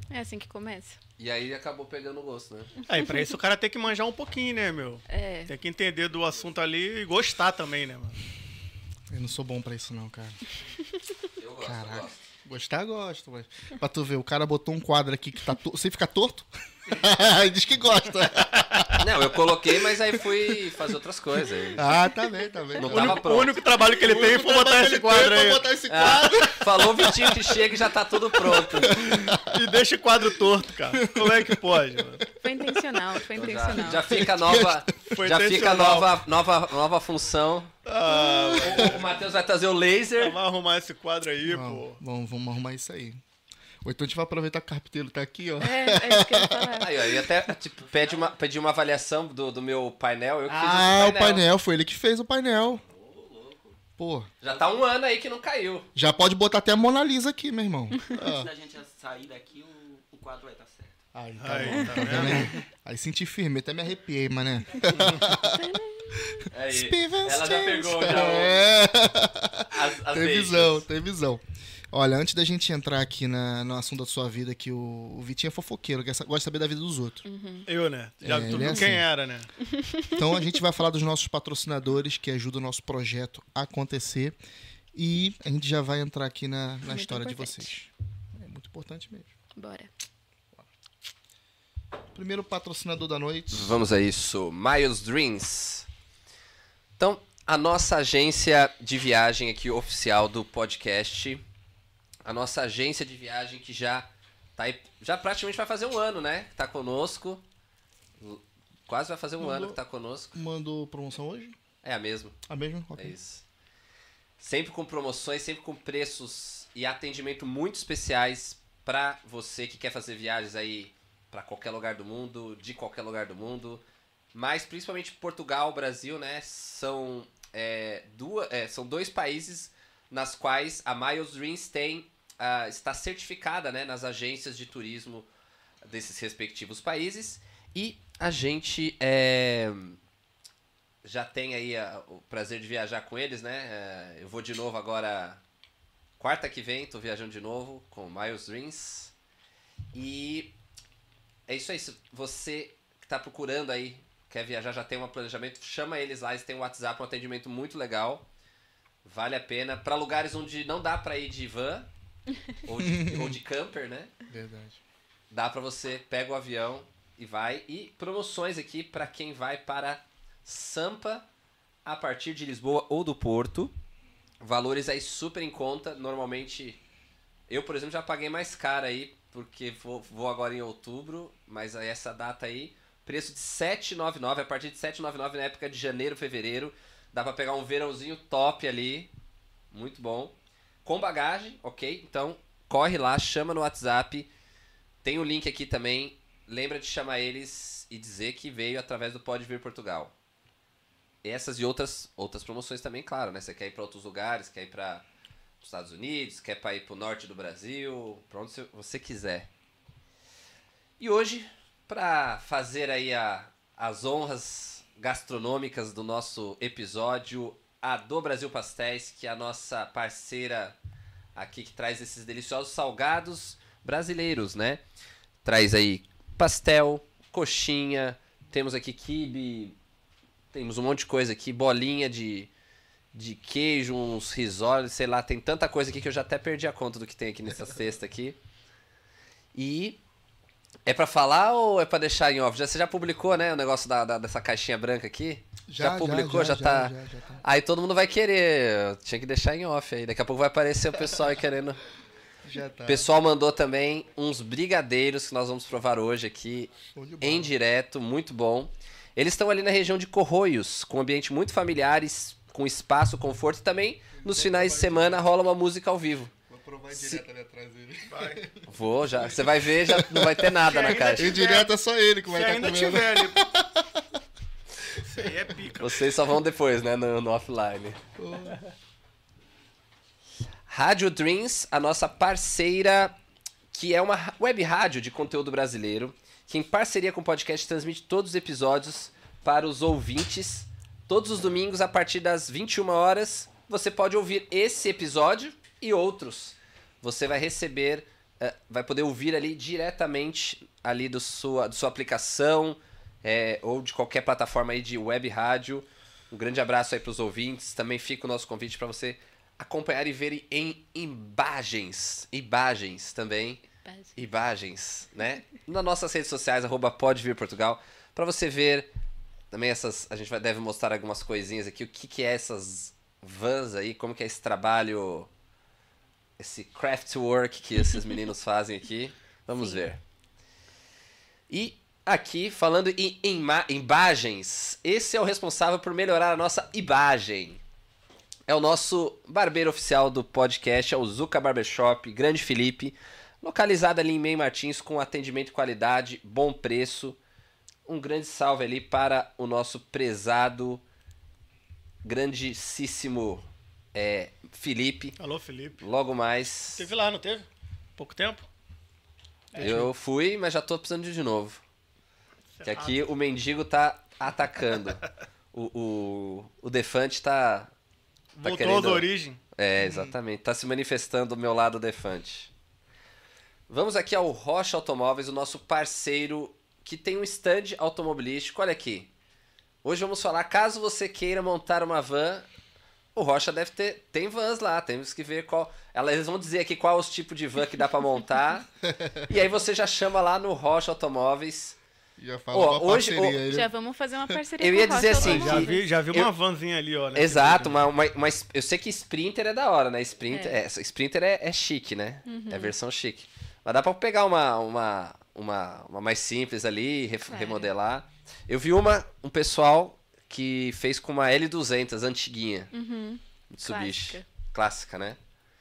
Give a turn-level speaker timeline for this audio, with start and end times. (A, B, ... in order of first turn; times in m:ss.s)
0:00.1-0:01.0 A
0:01.2-0:02.7 B
0:02.9-0:03.3 A
0:02.9-0:08.2 C
0:05.1-0:05.5 A
0:09.1-0:10.4 D
0:11.4-0:12.2 B
0:11.6-0:19.0 D
0:19.0-0:21.8 B
0:19.8-0:20.8 D
0:21.8-0:23.2 D
0:22.8-0:23.6 B
0:22.8-0:25.6 C
0:23.8-0:27.6 D
0:25.9-0:29.1 B
0:28.3-0:29.6 D
0:29.4-0:32.2 C
0:30.9-0:33.0 D
0:32.4-0:34.0 A
0:33.4-0:37.7 B
0:33.8-0:35.2 D
0:35.2-0:36.1 C
0:37.8-0:39.0 C
0:38.0-0:39.0 D
0:38.6-0:40.4 B
0:40.2-0:42.0 C
0:41.4-0:43.2 D
0:43.8-0:47.2 D
0:45.6-0:46.9 A
0:46.8-0:51.4 B
0:50.5-0:52.8 D
0:52.7-0:53.8 E
0:54.0-0:54.3 D
0:54.4-0:55.9 B
0:55.9-0:58.5 D
0:58.1-1:01.0 E
1:01.1-1:17.2 D
1:01.4-1:02.5 C
1:01.6-1:02.5 A
1:05.3-1:06.4 A
1:06.5-1:08.7 B
1:09.7-1:10.8 B
1:17.2-1:17.7 A
1:17.7-1:19.5 C
1:18.2-1:19.1 D
1:19.6-1:20.6 A
1:20.1-1:24.4 D
1:24.9-1:29.3 D
1:26.8-1:27.7 A
1:29.6-1:29.9 A
1:32.1-1:33.8 D
1:33.5-1:35.9 B
1:37.0-1:41.4 B
1:42.2-1:47.4 B
1:48.2-1:50.3 B
1:49.4-1:49.8 D
1:50.3-1:51.6 D
1:51.8-1:52.4 B
1:52.5-1:53.1 D
1:53.0-1:53.4 B
1:54.4-2:03.8 B
2:04.3-2:15.3 B
2:15.8-2:20.0 B
2:21.0-2:25.4 B
2:26.2-2:29.1 B
2:29.9-2:30.5 B
2:31.5-2:38.2 B
2:39.0-2:41.9 B
2:42.6-2:44.1 B
2:42.7-2:43.4 D
2:44.3-2:44.8 D
2:45.3-2:51.2 B
2:51.8-2:53.7 B
2:54.4-2:56.8 B
2:57.5-3:09.1 B
3:09.7-3:14.3 B
3:15.0-3:20.1 B
3:21.2-3:25.0 B
3:25.6-3:29.5 B
3:31.0-3:40.8 B
3:41.4-3:44.8 B
3:45.4-3:49.7 B
3:50.5-3:52.5 B
3:53.1-3:58.4 B
3:59.5-4:00.0 B
4:00.8-4:11.8 B
4:05.7-4:07.4 D
4:12.4-4:13.1 D
4:12.8-4:26.3 B
4:16.9-4:17.5 D
4:24.2-4:25.2 D
4:26.5-4:28.6 D
4:28.1-4:28.4 C
4:28.7-4:31.4 B
4:29.2-4:34.1 D
4:30.7-4:31.7 C
4:32.3-4:33.4 C
4:35.0-4:36.1 C
4:35.8-4:38.0 B
4:38.2-4:38.6 D
4:40.7-4:43.1 B
4:43.7-5:13.6 B
5:13.7-5:14.3 A
5:14.2-5:18.9 B
5:19.5-5:25.3 B
5:26.4-5:30.0 B
5:29.5-5:29.9 A
5:31.5-5:37.6 B
5:38.5-5:47.2 B
5:47.8-5:50.8 B
5:52.0-5:55.2 B
5:55.2-5:55.8 C
5:55.8-5:56.9 B
5:56.7-5:58.5 C
5:59.5-5:59.9 C
5:59.6-6:01.6 B
6:02.5-6:03.0 C
6:02.6-6:05.0 B
6:05.5-6:07.7 B
6:08.4-6:09.4 C
6:08.4-6:12.5 B
6:09.8-6:10.1 D
6:13.7-6:19.1 B
6:19.8-6:22.5 B
6:23.1-6:28.7 B
6:28.9-6:29.2 D
6:29.3-6:31.8 B
6:32.2-6:33.7 D
6:32.5-6:33.4 B
6:33.5-6:35.8 A
6:34.6-6:36.3 B
6:35.1-6:37.8 C
6:37.1-6:52.7 B
6:40.3-6:40.6 A
6:42.2-6:42.7 A
6:47.3-6:47.7 A
6:52.7-6:54.2 A
6:53.5-6:55.2 B